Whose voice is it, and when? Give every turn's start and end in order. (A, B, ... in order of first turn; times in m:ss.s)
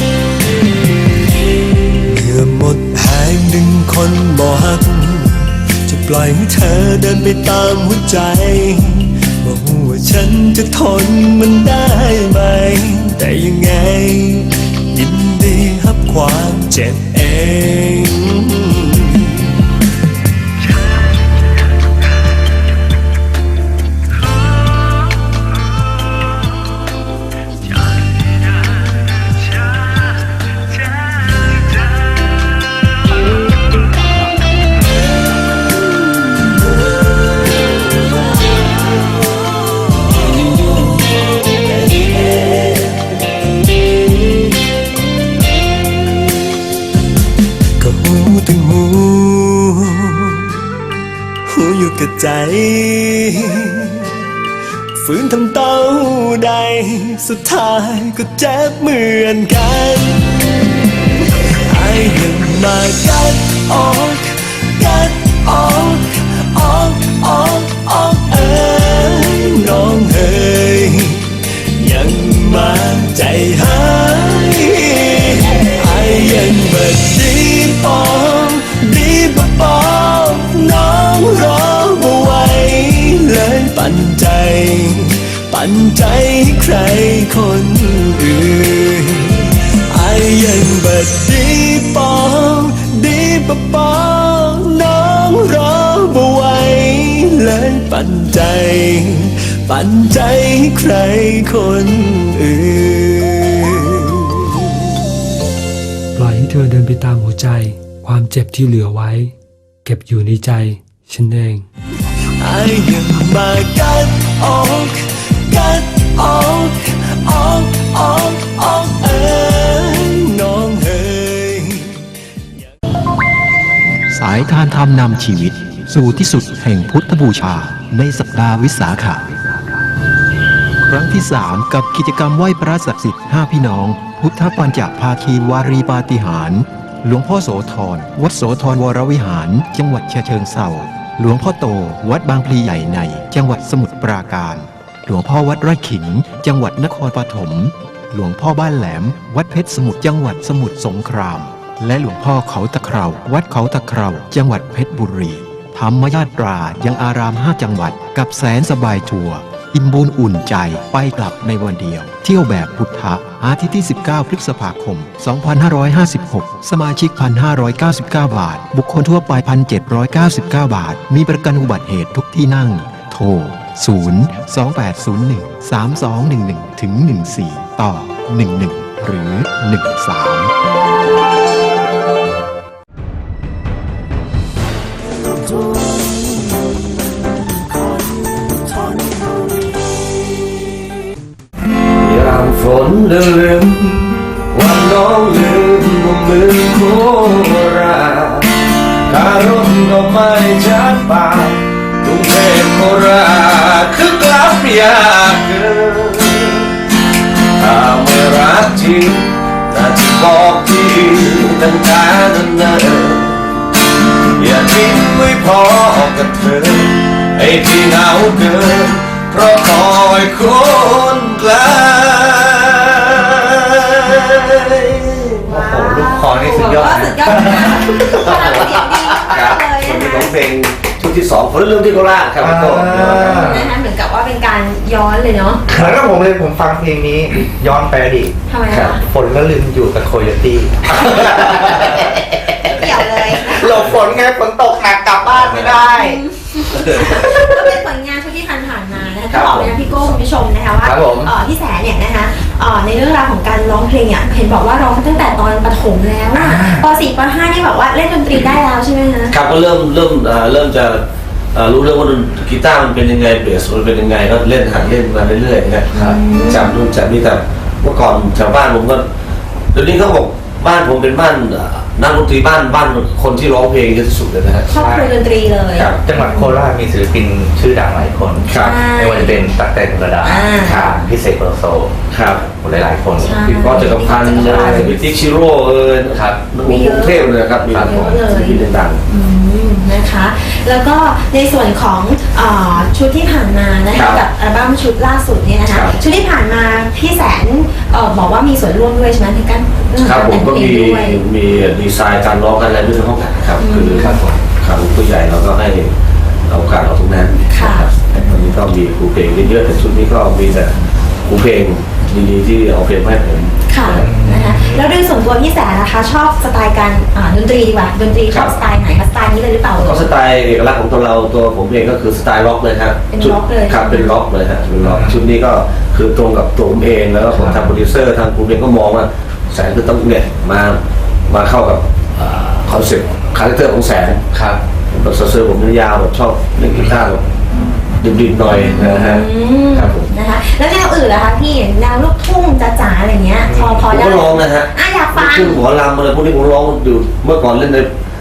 0:02.1-0:19.4 A
0:40.6-0:40.9 A
0:41.9-0:42.9 A
0:47.8-0:50.5 A
0:51.5-0:54.2 A
0:55.0-1:00.3 A
1:01.7-1:44.9 A
1:46.2-1:49.3 B
1:49.8-1:51.6 B
1:52.4-2:02.0 A
2:04.1-2:09.3 C
2:10.8-3:00.5 C
3:12.0-3:18.5 D
3:19.1-3:26.7 D
3:27.6-3:33.5 D
3:34.4-3:45.3 D
3:45.4-3:50.3 E
3:45.5-3:48.3 F
3:48.2-3:53.6 D
3:52.4-3:53.7 F
3:53.2-3:55.6 E
3:55.7-3:58.3 F
3:58.5-3:59.0 E
3:59.0-4:06.2 F
4:02.7-4:03.8 E
4:05.8-4:19.4 E
4:06.8-4:07.7 F
4:09.3-4:09.7 D
4:10.8-4:11.3 F
4:16.3-4:16.9 F
4:19.3-4:25.9 D
4:25.9-4:26.8 E
4:25.9-4:26.2 F
4:26.5-4:29.0 D
4:29.7-4:34.7 D
4:34.7-4:36.6 E
4:34.7-4:35.1 F
4:36.0-4:41.9 F
4:38.4-4:39.4 E
4:40.2-4:40.9 E
4:42.1-4:42.4 D
4:42.5-4:43.5 F
4:43.2-4:45.0 E
4:43.5-4:49.0 D
4:44.3-4:45.0 F
4:46.1-4:46.4 F
4:46.6-5:01.2 E
4:47.7-4:48.0 F
4:53.9-4:54.2 D
4:55.7-4:56.0 D
5:00.0-5:05.9 D
5:03.6-5:04.2 E
5:04.0-5:04.4 F
5:06.5-5:10.8 D
5:07.5-5:08.5 E
5:11.2-5:14.1 D
5:13.7-5:20.1 E
5:13.9-5:14.9 F
5:19.9-5:34.2 D
5:23.1-5:24.1 E
5:24.8-5:25.3 F
5:27.3-5:27.7 F
5:34.3-5:34.6 F
5:34.9-5:37.2 D
5:38.0-5:39.2 D
5:38.5-5:45.6 E
5:39.8-5:40.0 D
5:43.4-5:43.9 F
5:43.9-5:47.9 D